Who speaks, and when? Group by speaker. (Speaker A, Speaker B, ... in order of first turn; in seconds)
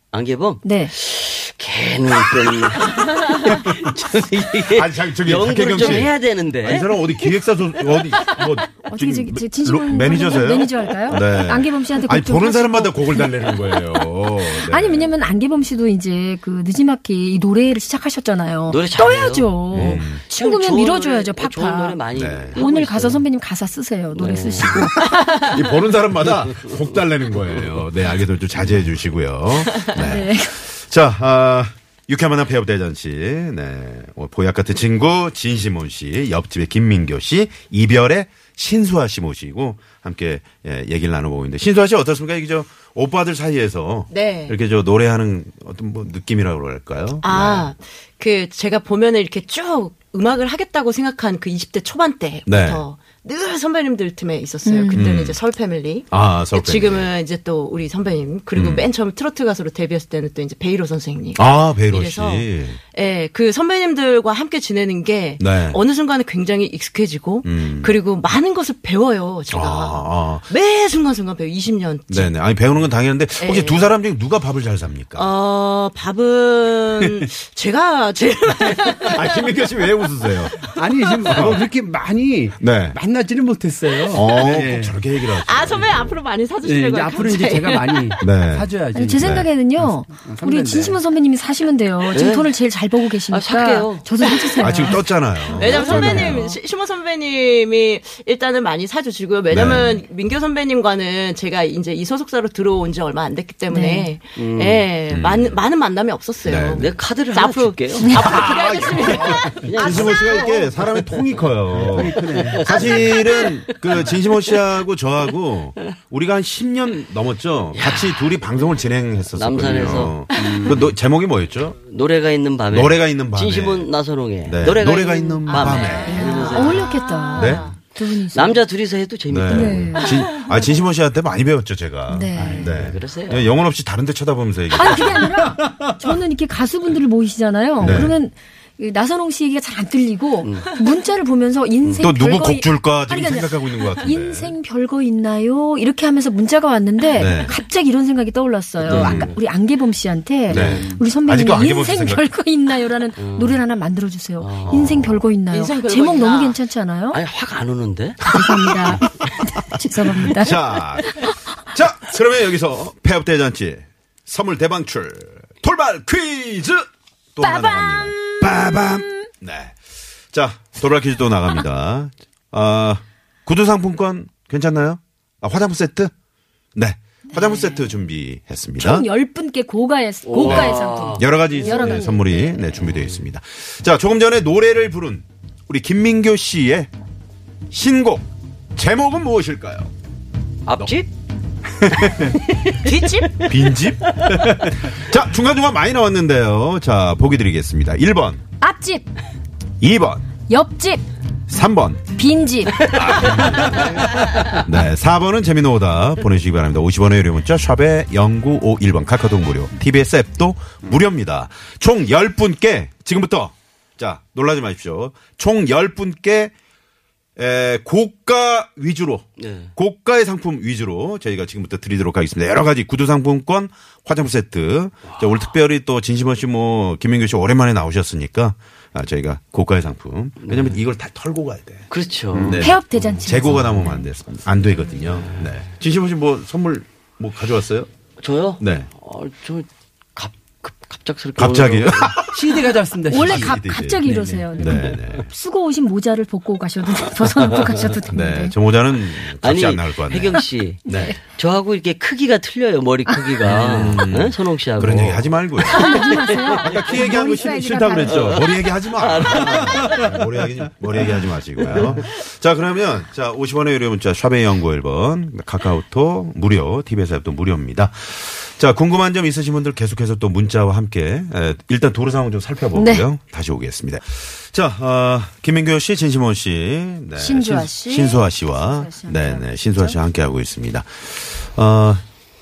Speaker A: 0.1-7.0, 18.7-23.2, 24.1-24.9, 92.1-92.5, 93.3-94.0, 104.4-104.9, 106.8-108.4, 109.0-110.7, 112.0-114.7, 117.8-118.1, 119.3-120.9, 121.8-126.9, 128.3-130.1, 132.7-133.5, 140.4-140.7, 148.8-149.4, 150.5-151.0, 153.2-153.6, 154.4-154.9, 157.1-158.2, 180.2-182.0, 182.8-183.1, 190.7-191.1, 192.1-193.5, 194.1-194.4, 219.4-219.7, 225.1-225.4, 230.4-230.8, 231.9-232.7, 235.0-235.5, 238.2-242.2, 247.2-247.9, 249.4-256.8, 258.1-260.2, 261.6-262.1
Speaker B: 0.6-0.9, 8.9-13.5, 14.6-22.0, 22.5-25.6, 29.9-30.6, 54.6-55.1, 88.9-96.3, 103.7-104.1, 108.0-110.2, 126.0-128.6, 129.5-130.1, 132.1-132.7, 134.7-157.2, 158.2-161.3, 167.4-169.3, 177.3-177.9, 178.8-182.8, 198.6-199.1, 200.5-201.0, 202.2-203.0, 232.5-234.1, 243.1-248.6, 250.9-251.2, 255.6-258.4, 272.8-273.1, 277.2-280.0
Speaker C: 4.7-15.1, 19.7-20.2, 22.1-22.6, 25.0-47.7, 52.5-52.8, 54.9-55.4, 56.1-57.1, 58.5-58.9, 61.4-62.8, 65.4-65.8, 67.4-68.0, 69.5-70.5, 72.1-75.3, 79.1-80.6, 81.3-81.6, 82.6-83.0, 84.1-86.2, 88.2-89.5, 94.6-96.5, 99.5-100.0, 105.1-105.6, 106.4-106.9, 108.1-121.8, 122.7-123.9, 124.4-126.4, 127.3-127.7, 129.3-135.4, 137.8-138.1, 142.0-144.5, 147.1-147.6, 148.8-149.3, 150.5-152.2, 154.7-155.2, 158.2-169.8, 170.3-176.1, 176.8-179.1, 180.4-186.9, 187.7-189.9, 193.4-198.4, 199.8-200.2, 201.5-202.1, 202.8-216.5, 217.4-237.9, 238.6-238.9, 241.4-242.6, 243.1-244.0, 244.6-245.3, 248.1-251.2, 253.4-256.0, 256.6-282.0
Speaker D: 44.1-44.6, 47.2-72.3, 73.4-73.9, 75.2-79.5, 85.3-88.2, 95.5-110.5, 125.5-127.8, 155.5-156.6, 192.8-193.3
Speaker E: 77.0-77.2, 80.7-85.0, 86.6-91.0, 111.7-112.7, 132.4-132.7, 135.5-135.9, 203.5-204.1, 242.3-244.8